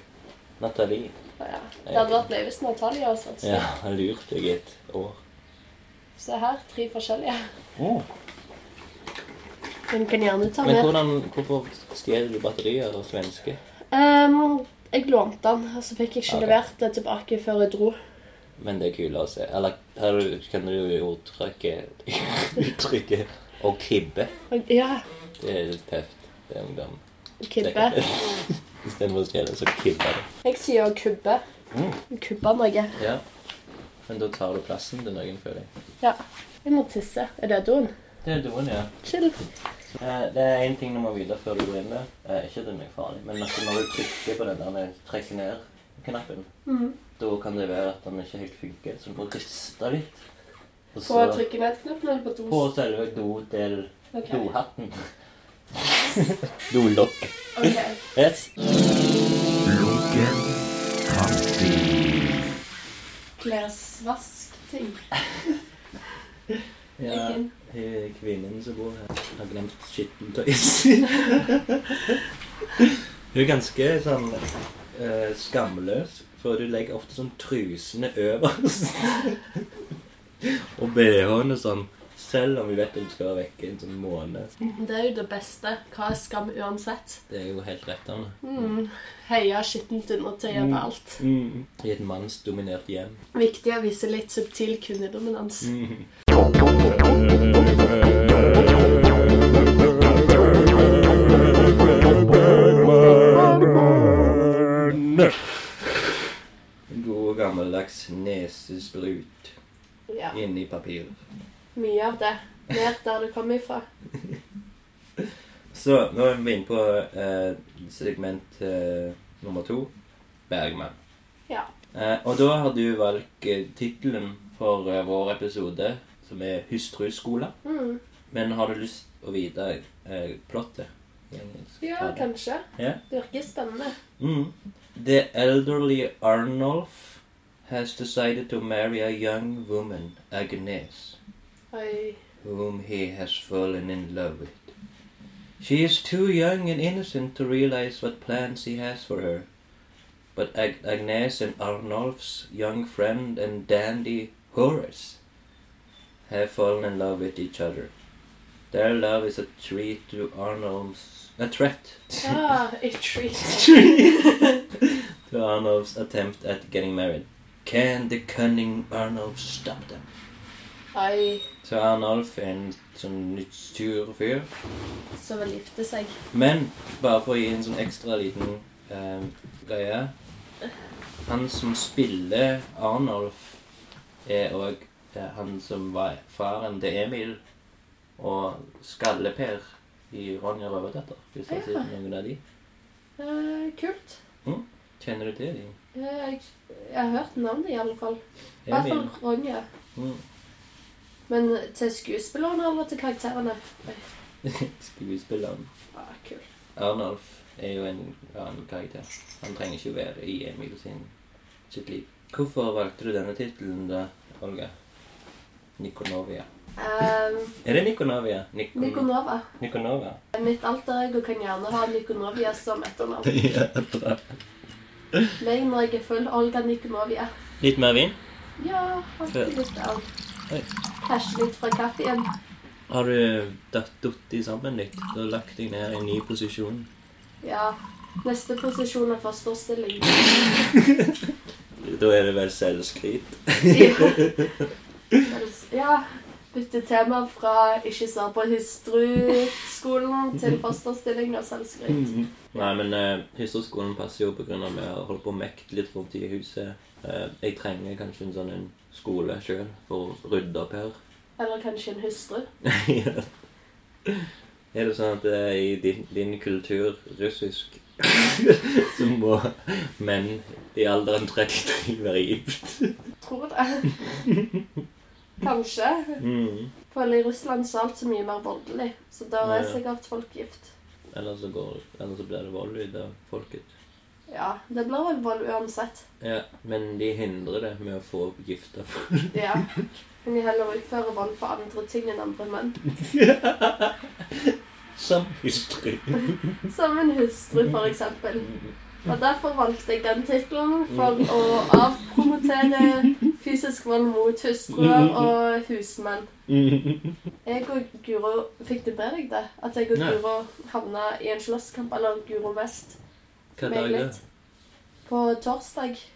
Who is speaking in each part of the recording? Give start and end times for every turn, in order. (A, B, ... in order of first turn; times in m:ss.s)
0:00.6-0:01.1 A
0:01.4-0:03.6 B
0:01.8-0:02.2 A
0:03.4-0:05.2 A
0:06.2-0:07.5 B
0:07.8-0:08.0 A
0:09.9-0:10.9 B
0:10.6-0:13.6 A
0:13.9-0:18.0 B
0:16.3-0:16.6 A
0:18.6-0:24.3 A
0:24.5-0:25.0 B
0:25.4-0:27.0 A
0:27.4-0:28.0 B
0:27.6-0:30.2 A
0:30.4-0:31.4 B
0:31.7-0:32.0 A
0:32.1-0:32.9 B
0:33.0-0:33.2 A
0:34.1-0:35.7 A
0:36.0-0:37.9 B
0:38.2-0:38.9 A
0:39.0-0:39.4 B
0:40.0-0:46.5 A
0:46.6-0:47.0 B
0:47.2-0:50.2 A
0:50.9-0:51.4 A
0:51.0-0:52.6 B
0:52.5-0:55.0 A
0:54.1-0:54.5 B
0:55.8-0:58.5 A
0:57.6-0:58.0 B
0:59.6-1:02.5 C
1:03.4-1:05.0 B
1:07.0-1:12.2 A
1:07.1-1:07.5 B
1:12.8-1:19.6 A
1:20.4-1:24.5 A
1:24.7-1:27.2 B
1:27.3-1:28.7 A
1:28.4-1:31.2 B
1:30.5-1:33.2 A
1:33.3-1:35.7 B
1:35.6-1:36.1 A
1:38.4-1:38.9 A
1:41.8-1:45.5 A
1:46.9-1:49.5 A
1:50.1-1:50.4 B
1:50.3-1:51.2 A
1:51.7-1:53.8 B
1:55.7-1:59.9 A
2:00.5-2:01.0 A
2:01.9-2:07.5 A
2:07.6-2:08.0 B
2:08.3-2:12.2 A
2:11.8-2:14.0 B
2:14.2-2:21.2 A
2:21.7-2:22.2 B
2:22.4-2:24.7 A
2:25.6-2:29.5 A
2:30.3-2:35.2 A
2:36.3-2:37.9 A
2:38.7-2:42.4 A
2:42.2-2:44.6 B
2:43.4-2:50.1 A
2:50.9-2:51.4 B
2:51.6-2:54.5 A
2:55.2-2:56.1 B
2:56.3-3:00.1 A
3:01.2-3:03.6 A
3:04.2-3:07.4 A
3:08.2-3:12.4 A
3:11.5-3:11.9 B
3:13.2-3:14.2 B
3:14.4-3:15.8 A
3:15.9-3:19.6 B
3:18.6-3:19.1 A
3:20.0-3:20.2 A
3:21.3-3:24.0 B
3:24.4-3:25.7 A
3:25.9-3:26.4 B
3:26.8-3:31.1 A
3:31.7-3:34.7 A
3:35.8-3:36.5 A
3:36.8-3:37.6 B
3:37.6-3:40.2 A
3:38.7-3:39.4 B
3:40.3-3:43.3 B
3:43.2-3:44.4 A
3:45.4-3:47.3 B
3:47.6-3:48.2 A
3:48.6-3:50.0 B
3:49.3-3:49.5 A
3:51.0-3:52.3 B
3:52.9-3:56.9 A
3:57.4-4:00.7 B
4:00.7-4:01.1 A
4:01.8-4:05.2 A
4:03.7-4:04.4 B
4:05.3-4:12.7 B
4:11.9-4:21.0 A
4:21.4-4:22.5 B
4:22.6-4:23.3 A
4:24.0-4:33.0 A
4:33.2-4:34.0 B
4:34.1-4:34.6 A
4:35.4-4:36.2 B
4:36.2-4:36.7 A
4:36.9-4:40.7 B
4:39.4-4:39.8 A
4:41.1-4:43.7 A
4:44.3-4:46.0 B
4:46.2-4:49.8 A
4:49.3-4:52.8 B
4:52.9-4:56.5 A
4:56.7-4:58.5 B
4:58.4-4:58.7 A
4:59.0-5:06.3 B
5:00.9-5:01.3 A
5:02.6-5:03.1 A
5:04.7-5:05.3 A
5:06.5-5:07.2 A
5:07.4-5:13.0 B
5:09.9-5:10.2 A
5:13.6-5:14.2 A
5:13.6-5:14.1 B
5:15.0-5:16.0 B